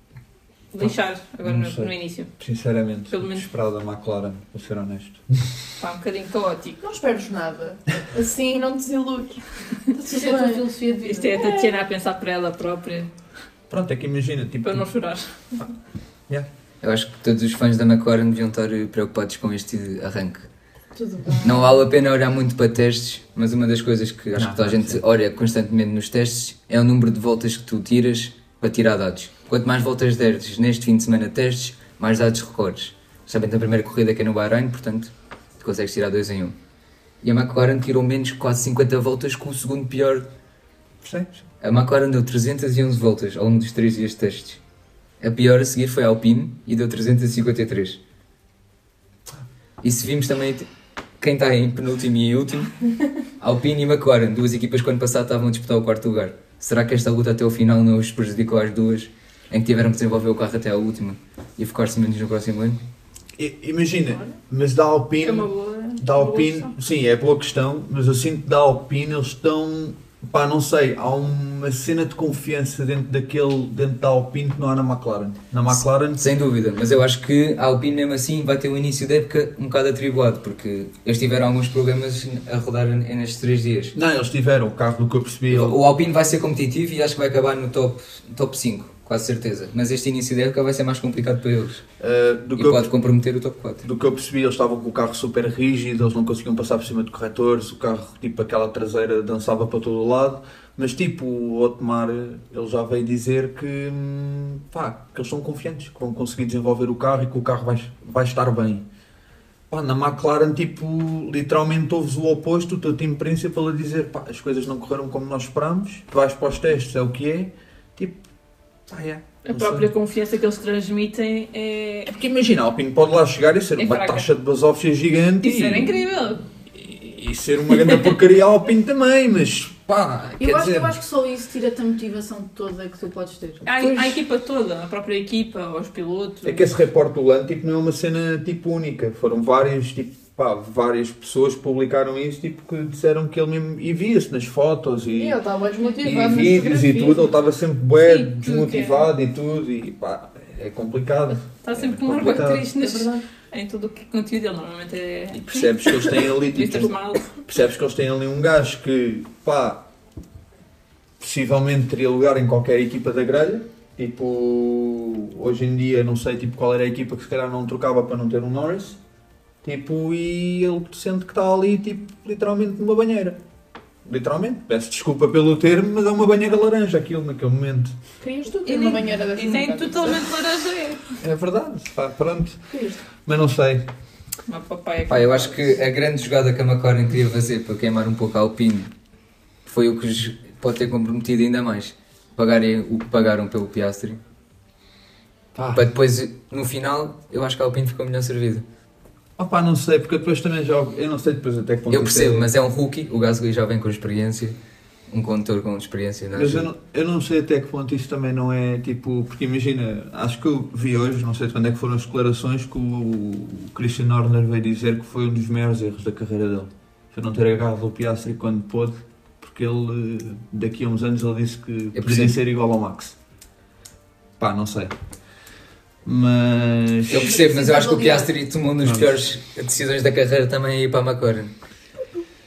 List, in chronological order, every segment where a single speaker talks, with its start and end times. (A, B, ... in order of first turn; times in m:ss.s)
0:00.7-0:02.3 A
0:00.8-0:05.6 B
0:03.1-0:03.4 A
0:05.8-0:06.8 A
0:06.8-0:10.6 C
0:10.0-0:11.6 D
0:11.0-0:13.1 A
0:13.7-0:14.9 B
0:14.6-0:15.6 A
0:16.8-0:20.5 E
0:21.0-0:21.6 C
0:21.4-0:36.6 E
0:24.4-0:25.0 B
0:37.2-0:40.3 E
0:41.0-0:41.4 B
0:41.6-0:44.6 E
0:45.2-0:48.0 E
0:49.8-0:50.7 E
0:51.2-0:52.7 E
0:53.4-1:02.8 E
1:03.4-1:16.2 B
1:05.2-1:06.7 A
1:15.7-1:23.9 E
1:23.9-1:25.8 B
1:25.5-1:31.8 E
1:32.0-1:32.9 B
1:32.6-1:33.9 E
1:33.8-1:48.8 B
1:49.7-1:58.2 B
1:58.9-1:59.9 B
1:59.4-2:02.1 A
2:02.1-2:06.0 B
2:03.8-2:04.3 A
2:05.4-2:06.4 A
2:06.7-2:11.0 B
2:10.4-2:13.7 D
2:13.7-2:16.7 A
2:13.8-2:14.2 B
2:16.4-2:25.4 B
2:25.1-2:27.3 C
2:26.0-2:32.7 B
2:28.0-2:29.1 A
2:31.6-2:37.4 A
2:32.7-2:33.2 C
2:35.3-2:39.9 B
2:41.2-2:49.0 B
2:49.6-2:53.4 B
2:54.0-2:58.0 B
2:58.2-3:00.2 C
2:58.6-3:01.2 A
3:01.2-3:03.9 B
3:02.7-3:03.0 C
3:04.5-3:05.8 A
3:05.1-3:08.9 E
3:09.6-3:14.2 E
3:15.6-3:15.8 B
3:15.7-3:18.6 E
3:19.4-3:22.5 B
3:21.9-3:24.6 E
3:25.1-3:26.7 E
3:26.3-3:43.2 B
3:41.9-3:42.4 E
3:44.4-3:45.0 B
3:46.0-3:47.3 B
3:47.1-3:51.5 E
3:47.2-3:48.3 D
3:48.8-3:49.2 B